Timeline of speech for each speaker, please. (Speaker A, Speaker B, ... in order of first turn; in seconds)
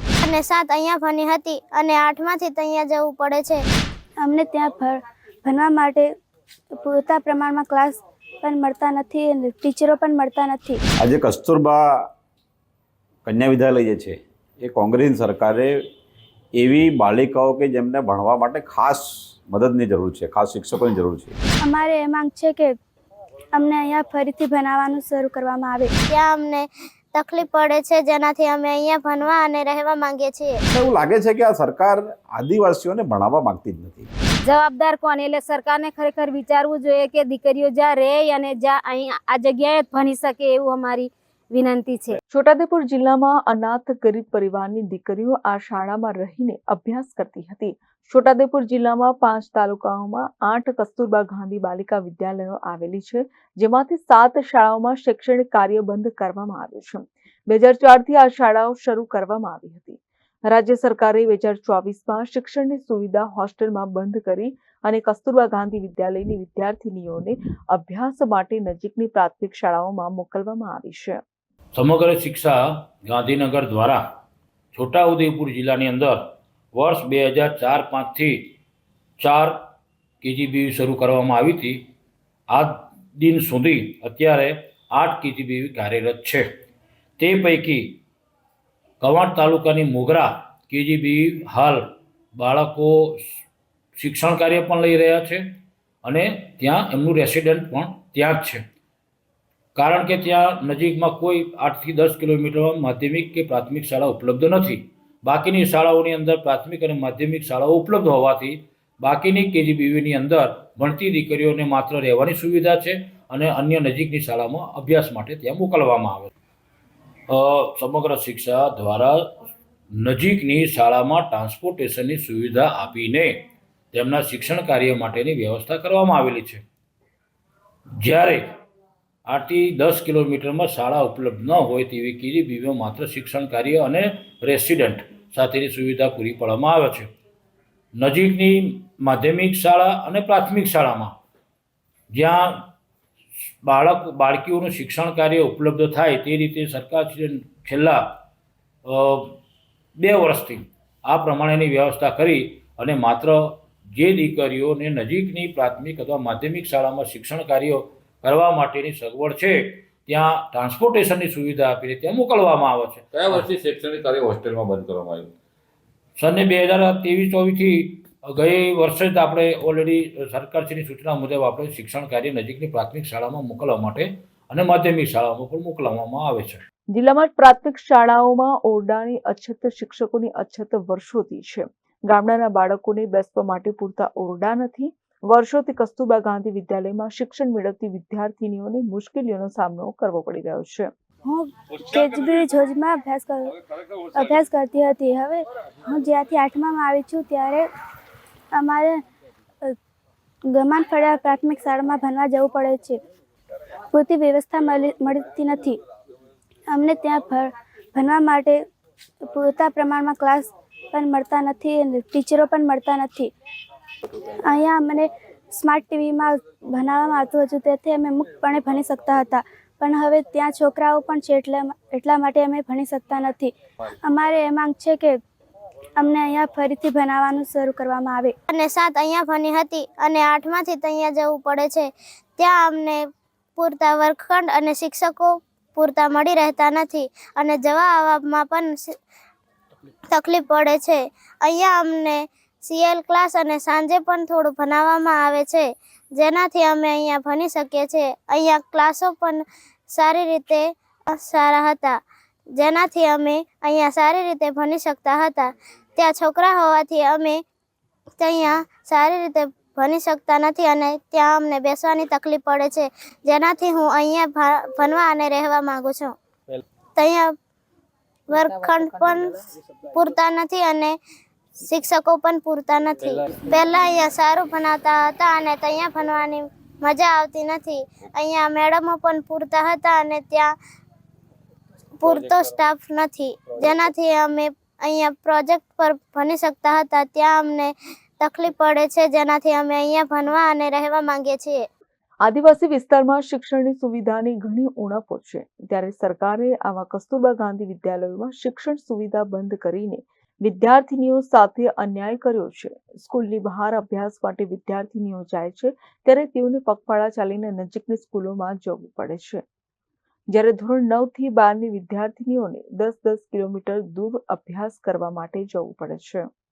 Speaker A: 0.2-3.6, 26.1-30.6, 228.5-233.0, 233.6-238.9, 240.1-252.0, 252.6-257.4, 258.2-266.1, 267.0-267.3, 268.3-269.4, 269.9-271.0, 271.6-280.5, 282.0-291.6
Speaker B: 4.2-6.1, 6.7-10.8, 21.6-22.8, 23.5-25.9, 191.2-193.6, 194.1-197.7, 198.5-199.0, 200.5-203.0, 203.9-205.8, 206.7-208.6, 209.2-213.3, 214.4-225.2, 226.0-228.3
Speaker C: 11.0-12.0, 13.2-15.7, 16.6-21.3, 30.7-34.1
Speaker D: 34.4-42.2
Speaker E: 42.3-71.2, 176.9-190.9, 292.2-309.4, 310.3-316.3
Speaker F: 71.7-74.0, 74.7-78.5, 79.2-79.6, 80.2-81.8, 82.5-86.4, 87.2-88.0, 89.0-91.8, 92.3-93.2, 94.0-95.4, 96.0-98.6, 99.8-116.3, 117.3-119.3, 120.0-126.6, 128.0-128.5, 129.3-137.1, 137.9-141.1, 142.1-142.7, 143.6-148.0, 148.8-149.4, 150.0-165.2, 166.2-176.6
Speaker G: 163.1-165.3